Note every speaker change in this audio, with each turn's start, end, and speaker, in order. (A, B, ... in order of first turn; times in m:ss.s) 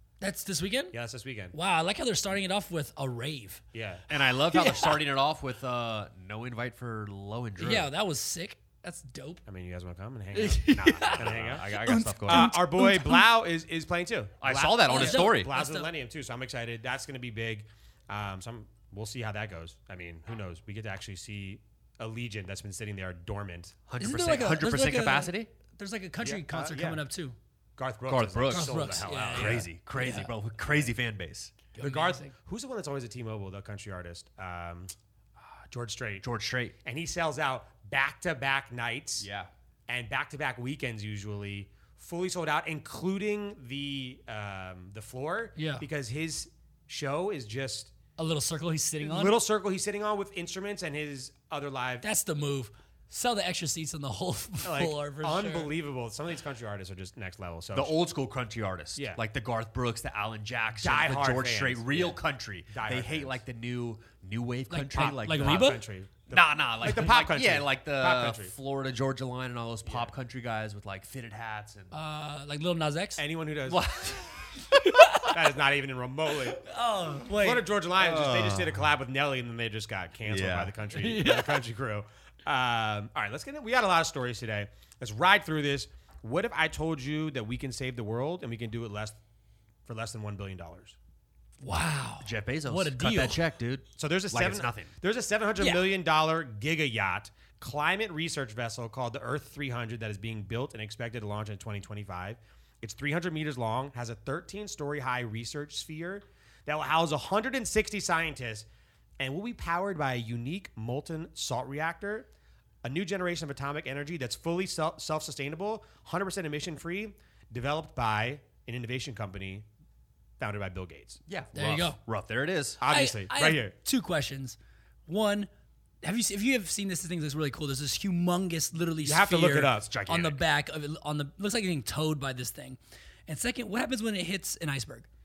0:00.2-0:01.0 A
0:00.9-0:01.5 B
0:01.5-0:03.6 A
0:03.7-0:04.0 B
0:04.1-0:07.9 C
0:04.5-0:05.0 A
0:07.6-0:09.4 A
0:09.5-0:23.8 B
0:10.3-0:13.3 A
0:11.1-0:12.5 C
0:14.4-0:15.5 C
0:14.9-0:15.9 A
0:23.9-0:25.5 C
0:24.0-0:27.4 A
0:26.2-0:27.0 B
0:27.8-0:29.7 B
0:28.1-0:31.6 C
0:28.5-0:30.3 A
0:30.6-0:30.9 B
0:31.8-0:32.3 A
0:31.8-0:34.9 B
0:35.7-0:36.2 B
0:36.2-0:36.8 C
0:36.8-0:39.3 B
0:39.2-0:39.5 C
0:39.9-0:47.9 B
0:45.6-0:45.8 A
0:48.2-0:49.4 A
0:49.0-0:52.1 B
0:52.0-0:55.7 A
0:54.6-0:58.0 B
0:57.7-1:05.8 C
0:59.0-0:59.2 B
1:00.8-1:03.4 B
1:04.7-1:05.8 A
1:05.2-1:08.5 B
1:06.3-1:11.9 C
1:09.8-1:10.1 B
1:11.9-1:13.2 A
1:13.2-1:13.8 B
1:13.7-1:14.4 C
1:14.7-1:15.4 A
1:15.2-1:16.6 B
1:16.6-1:17.6 A
1:17.4-1:29.2 B
1:18.0-1:18.8 C
1:20.3-1:20.7 C
1:20.9-1:21.6 A
1:29.9-1:31.0 B
1:31.6-1:33.4 A
1:32.2-1:34.9 C
1:34.0-1:48.7 B
1:35.6-1:35.9 A
1:49.2-1:52.3 B
1:52.8-1:59.7 B
2:00.4-2:01.2 B
2:01.3-2:02.8 C
2:01.5-2:02.0 A
2:02.8-2:03.7 B
2:02.9-2:05.5 A
2:06.0-2:15.1 A
2:09.0-2:09.9 B
2:09.8-2:10.4 C